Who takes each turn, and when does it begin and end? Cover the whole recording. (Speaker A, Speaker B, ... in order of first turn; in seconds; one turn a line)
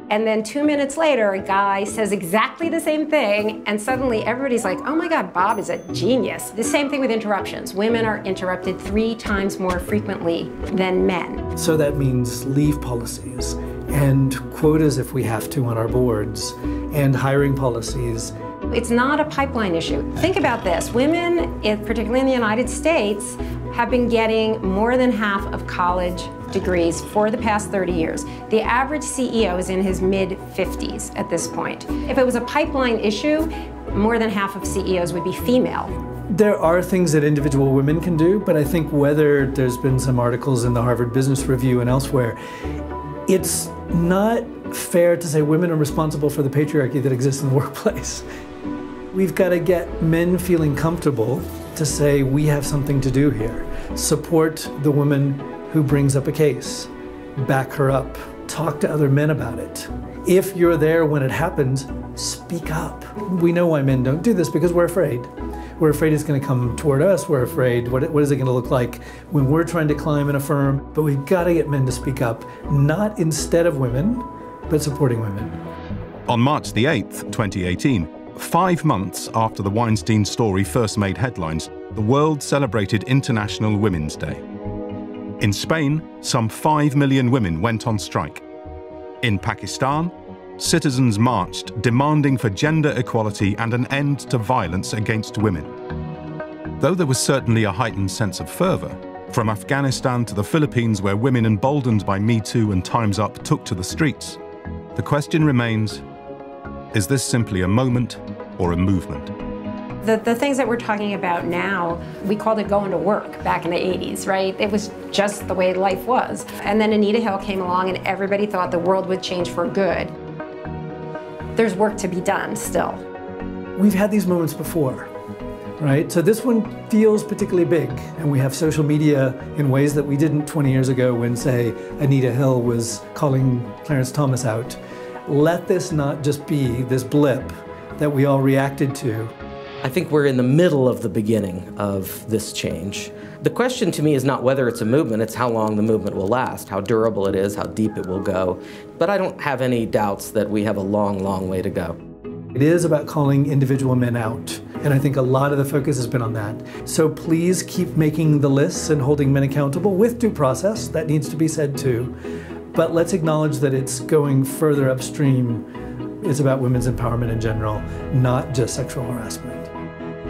Speaker A: 0.1-11.4
Speaker B: 11.6-18.3
Speaker A: 18.7-35.9
Speaker B: 36.3-42.4
Speaker B: 43.3-48.2
Speaker B: 49.1-75.6
Speaker C: 76.3-84.4
Speaker C: 85.4-88.4
Speaker C: 89.2-95.7
Speaker C: 96.8-104.4
Speaker C: 105.0-106.0
Speaker C: 106.9-109.3
Speaker A: 110.0-120.1
Speaker A: 121.5-123.0
Speaker B: 123.8-125.1
Speaker B: 125.8-139.3
Speaker D: 139.8-152.0
Speaker B: 152.5-162.1
Speaker B: 162.7-165.7
Speaker B: 166.2-169.7